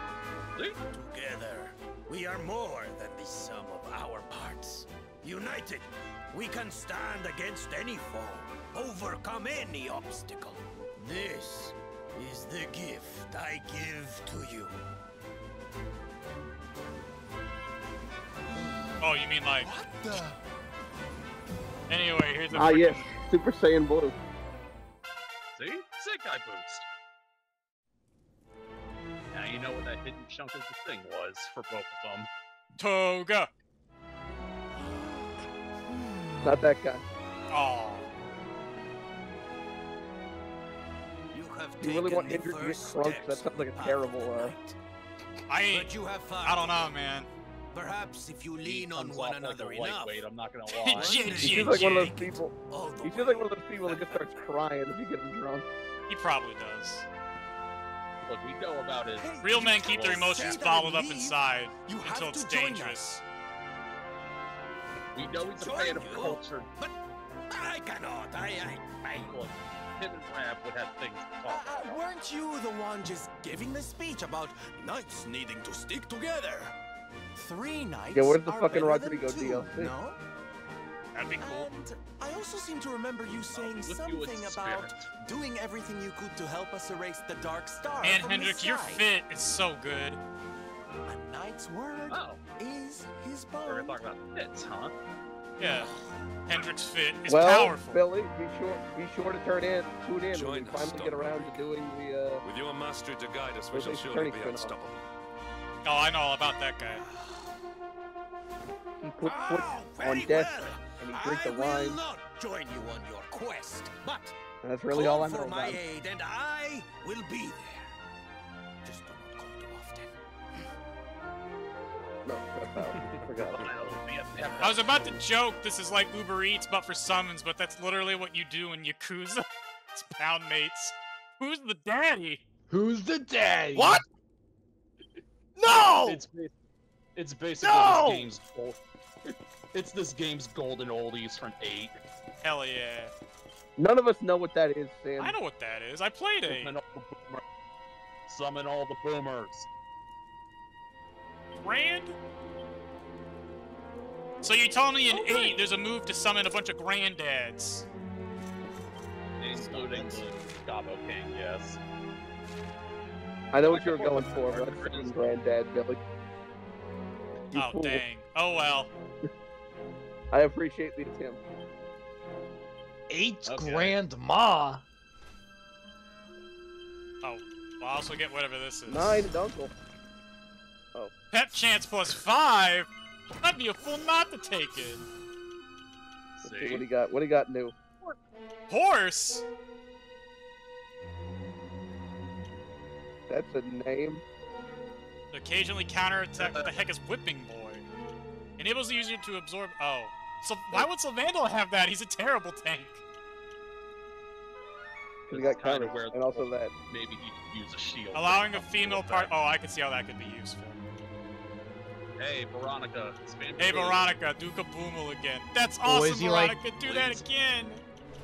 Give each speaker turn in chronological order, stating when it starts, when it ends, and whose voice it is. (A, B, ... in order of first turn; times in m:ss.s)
0:00.9-0:14.8 A
0:19.0-0:19.7 B
0:19.6-0:20.4 A
0:21.9-0:23.1 B
0:22.5-0:24.2 C
0:25.6-0:26.8 D
0:29.3-0:32.3 D
0:32.8-0:33.5 B
0:36.4-0:37.0 C
0:37.5-0:38.1 B
0:41.3-0:44.8 A
0:41.8-0:44.6 C
0:45.5-0:47.3 B
0:45.7-0:46.8 A
0:47.7-0:50.2 A
0:48.6-0:51.2 D
0:50.7-0:52.1 B
0:51.0-0:54.4 A
0:51.3-0:55.6 C
0:56.1-0:57.0 B
0:58.3-1:00.4 D
0:59.2-1:01.3 A
0:59.4-1:03.2 B
1:00.0-1:00.5 E
1:01.9-1:03.0 E
1:01.9-1:02.8 A
1:05.1-1:06.7 D
1:05.3-1:06.9 A
1:07.5-1:09.4 A
1:09.2-1:11.8 D
1:11.5-1:14.8 E
1:14.7-1:16.7 A
1:17.4-1:20.2 E
1:18.1-1:20.0 C
1:21.1-1:21.7 B
1:21.4-1:29.0 E
1:23.5-1:25.1 D
1:28.0-1:30.2 B
1:31.0-1:33.9 E
1:32.1-1:32.4 D
1:33.6-1:34.9 D
1:35.6-1:35.9 B
1:36.4-1:38.0 B
1:37.3-1:42.4 C
1:40.3-1:41.6 F
1:42.4-1:45.0 F
1:43.7-1:44.8 C
1:45.8-1:47.0 B
1:47.1-1:47.4 A
1:49.0-1:52.0 C
1:49.2-1:54.3 A
1:54.6-1:55.8 C
1:54.9-1:57.9 A
1:58.8-2:00.1 A
2:02.2-2:03.7 C
2:03.5-2:05.1 D
2:04.6-2:12.4 B
2:12.7-2:14.0 G
2:15.6-2:16.2 E
2:16.0-2:16.5 D
2:17.2-2:18.8 D
2:17.6-2:18.1 G
2:19.7-2:22.0 D
2:22.4-2:23.1 B
2:23.8-2:25.4 C
2:25.2-2:26.7 B
2:26.4-2:27.4 D
2:28.3-2:29.7 D
2:31.6-2:32.2 B
2:34.4-2:37.9 B
2:35.1-2:35.6 D
2:39.4-2:41.8 D
2:43.5-2:46.0 C
2:43.6-2:45.2 D
2:47.5-2:48.0 C
2:47.5-2:48.9 B
2:50.3-2:51.4 C
2:53.1-2:54.8 G
2:53.4-2:54.0 D
2:57.2-2:59.2 B
2:58.9-2:59.7 C
3:01.3-3:02.9 B
3:03.4-3:05.1 B
3:06.4-3:06.8 D
3:06.4-3:07.7 C
3:08.7-3:09.4 B
3:13.3-3:14.2 C
3:15.3-3:17.8 B
3:16.4-3:16.7 D
3:18.6-3:23.0 B
3:25.3-3:26.7 C
3:25.3-3:29.3 D
3:28.1-3:30.8 B
3:32.2-3:34.0 D
3:33.6-3:37.8 B
3:35.8-3:36.6 G
3:36.8-3:37.2 D